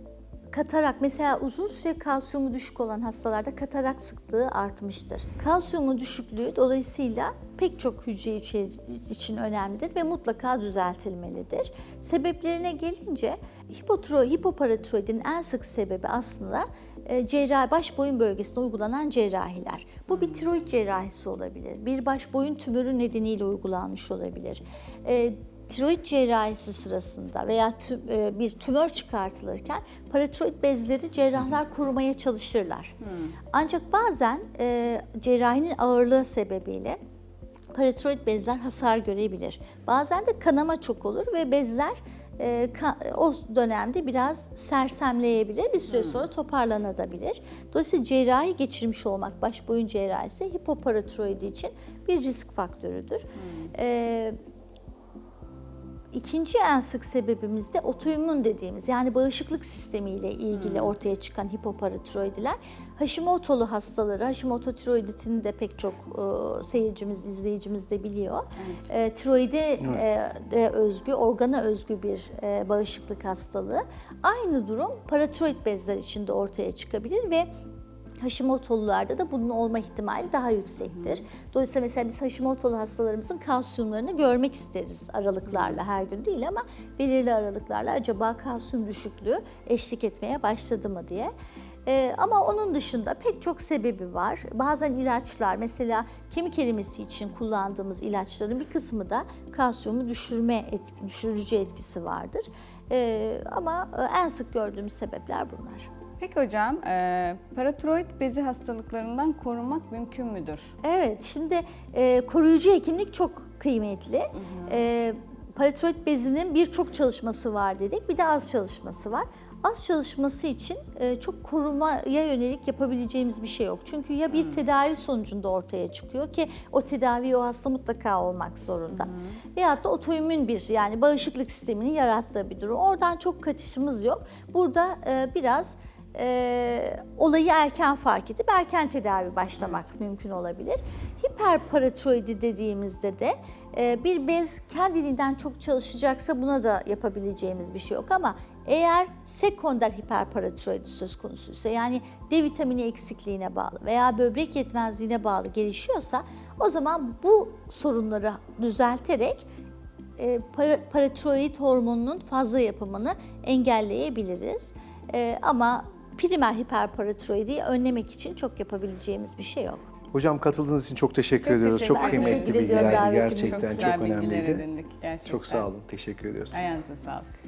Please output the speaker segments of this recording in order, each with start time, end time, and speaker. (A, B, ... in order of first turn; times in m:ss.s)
0:00.5-0:33.0 A
0:20.1-0:20.4 B
0:33.0-0:33.4 B
0:33.5-0:37.0 A
0:37.7-0:54.4 A
0:45.9-0:46.2 B
0:53.4-0:53.7 B
0:56.1-1:17.5 A
1:00.5-1:01.0 B
1:08.6-1:08.9 B
1:18.2-1:31.3 A
1:31.9-1:45.9 A
1:46.2-1:50.7 B
1:50.8-2:39.5 A
1:54.4-1:54.8 B
2:04.3-2:04.6 B
2:08.9-2:09.4 B
2:40.2-2:49.8 A
2:50.1-2:54.6 C
2:51.4-2:55.7 B
2:51.9-2:54.0 A
2:55.2-2:56.6 C
2:56.5-2:57.3 B